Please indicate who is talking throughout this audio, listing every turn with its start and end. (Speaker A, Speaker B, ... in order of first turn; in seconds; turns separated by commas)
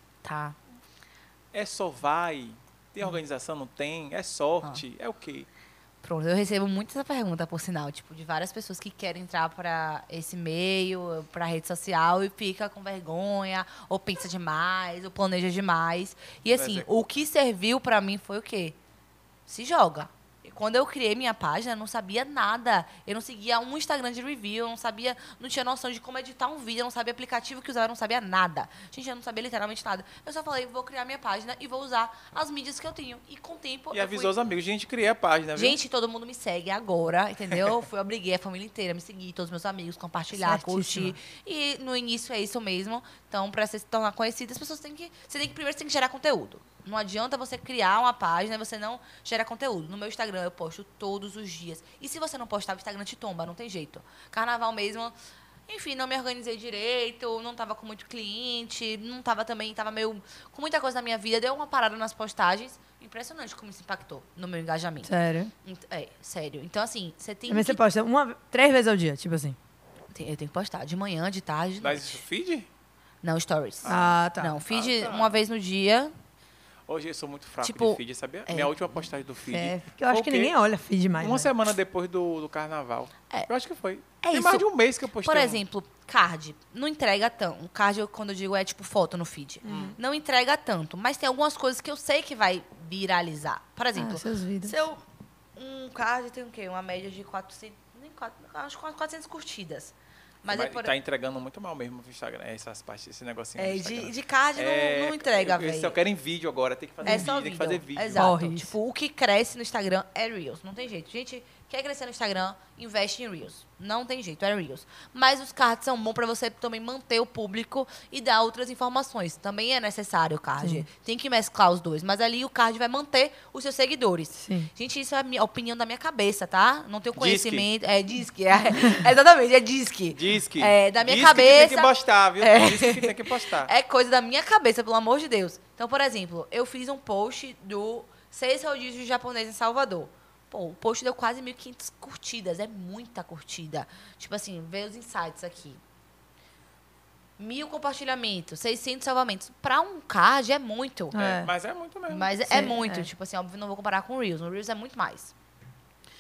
Speaker A: 0.2-0.6, Speaker B: 1.5-5.5, Speaker A: 6.0-18.8, Speaker B: 16.5-16.9, Speaker A: 19.5-34.3, Speaker B: 33.9-35.8, Speaker A: 35.5-55.1, Speaker C: 40.3-41.1, Speaker A: 55.7-65.1, Speaker C: 65.0-65.5, Speaker A: 65.6-67.8, Speaker C: 67.5-69.6, Speaker A: 70.1-72.2, Speaker B: 71.8-72.7, Speaker A: 73.2-76.1, Speaker B: 73.8-75.4, Speaker C: 73.9-74.6, Speaker B: 76.9-80.5, Speaker A: 77.6-79.0, Speaker C: 79.5-81.5, Speaker B: 81.2-85.6, Speaker A: 84.2-84.7, Speaker A: 85.2-95.0, Speaker C: 89.6-90.0, Speaker B: 89.7-89.9, Speaker C: 93.9-94.7, Speaker A: 95.5-100.9, Speaker B: 100.5-108.3, Speaker A: 103.6-106.0, Speaker A: 107.0-145.8, Speaker C: 107.0-107.3, Speaker C: 108.2-108.7, Speaker C: 120.6-120.8, Speaker C: 124.4-124.7, Speaker B: 127.2-127.7, Speaker B: 130.1-133.7, Speaker A: 147.4-151.2, Speaker C: 151.1-151.5, Speaker B: 151.1-152.3, Speaker A: 152.1-155.3, Speaker C: 152.5-153.1